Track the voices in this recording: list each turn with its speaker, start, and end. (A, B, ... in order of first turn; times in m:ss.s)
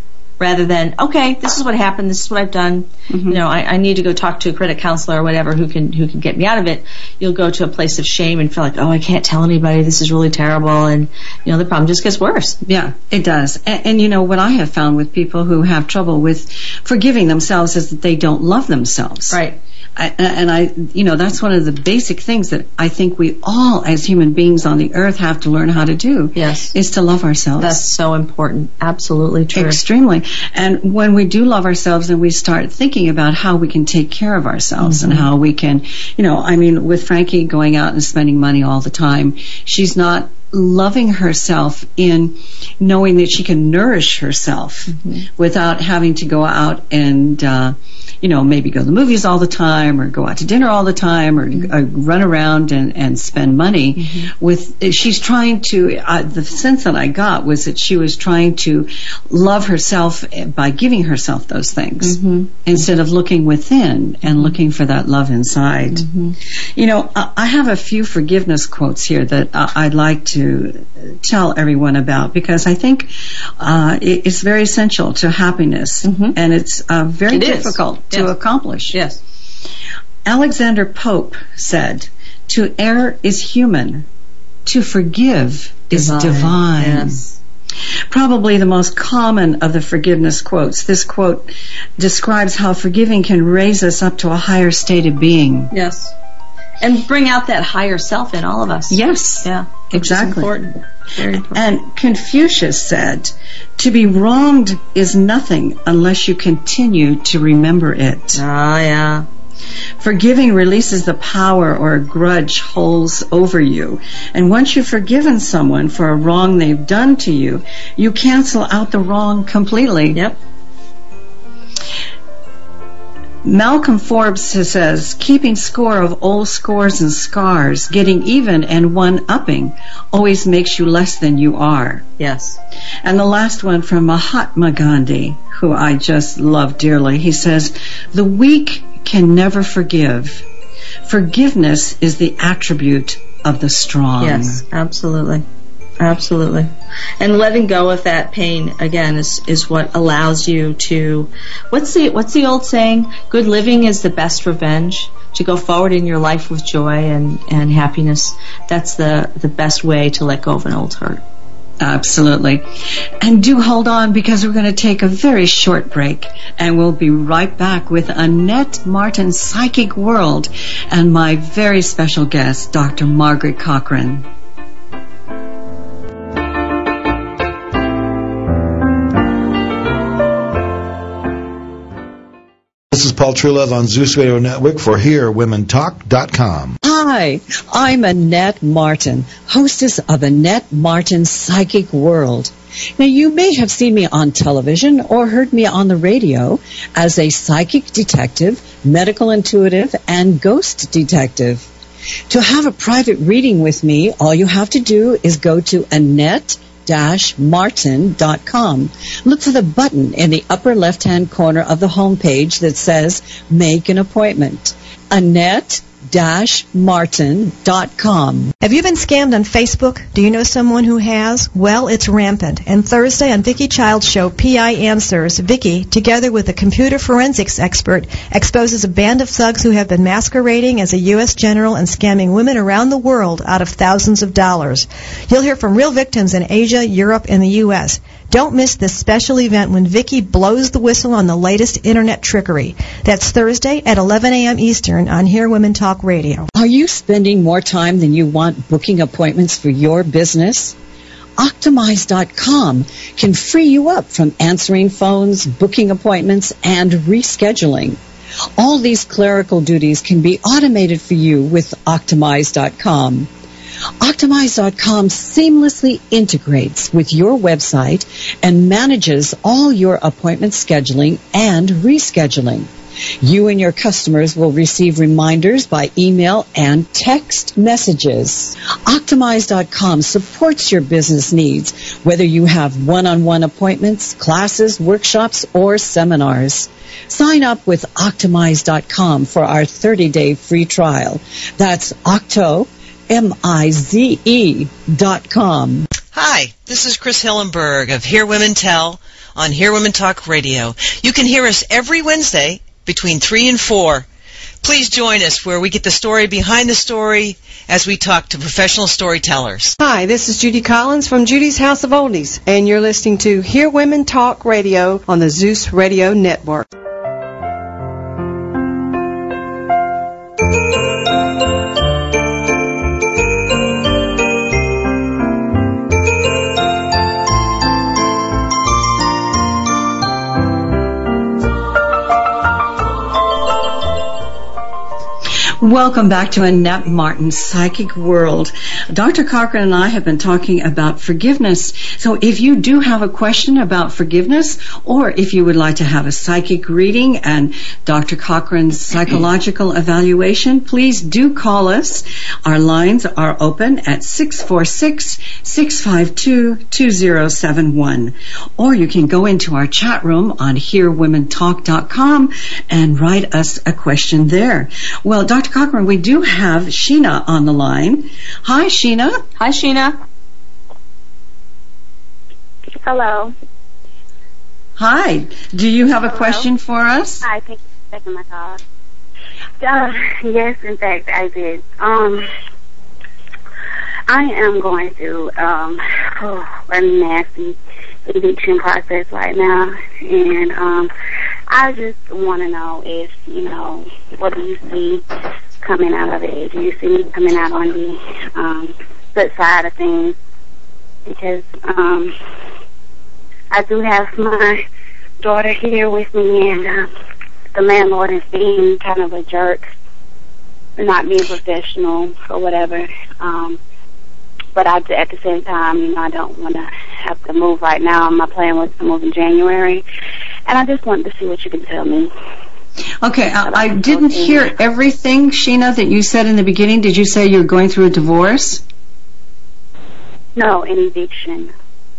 0:00.4-0:12.6 A
0:03.1-0:03.4 B
0:12.6-0:19.4 B
0:19.3-0:19.6 A
0:20.0-0:27.8 B
0:26.4-0:26.7 A
0:27.6-0:29.8 A
0:29.5-1:06.1 B
0:34.8-0:35.3 A
0:44.9-0:45.2 A
0:54.0-0:54.3 A
1:02.0-1:02.5 A
1:04.3-1:04.5 A
1:05.9-1:06.4 A
1:06.6-1:19.0 B
1:16.0-1:16.4 A
1:17.3-1:18.3 A
1:18.9-1:19.2 A
1:20.2-1:24.1 B
1:24.7-1:27.2 B
1:25.9-1:27.4 A
1:28.1-1:35.7 B
1:35.7-1:36.1 A
1:36.8-1:41.6 A
1:38.9-1:40.6 B
1:41.4-1:48.4 B
1:48.3-1:49.3 A
1:50.0-2:00.2 B
2:03.4-2:12.1 B
2:12.2-2:12.6 A
2:13.0-2:20.4 B
2:21.0-2:24.6 B
2:24.2-2:25.4 A
2:26.0-2:41.2 A
2:41.8-2:42.7 B
2:43.2-2:54.3 B
3:02.9-3:06.8 C
3:06.8-3:21.7 B
3:22.3-3:38.5 B
3:38.6-4:06.5 D
4:06.5-4:10.8 B
4:11.4-4:18.0 B
4:18.6-4:23.3 B
4:24.0-4:32.7 B
4:33.2-4:55.9 B
4:56.1-5:04.1 E
5:04.6-5:09.8 E
5:09.8-5:16.7 F
5:35.6-6:09.2 B
6:09.4-6:10.0 A
6:12.8-6:13.3 G
6:14.8-6:17.3 B
6:16.1-6:16.5 G
6:17.2-6:18.6 G
6:19.6-6:22.3 G
6:24.1-6:30.9 G
6:31.5-6:35.0 G
6:35.6-6:40.2 G
6:41.1-6:42.1 G
6:43.5-6:44.6 G
6:45.2-6:46.9 G
6:47.5-6:49.7 G
6:50.8-6:53.6 G
6:54.6-6:59.8 G
7:00.5-7:02.1 G
7:03.0-7:08.6 B
7:03.4-7:04.5 G
7:10.4-7:11.5 G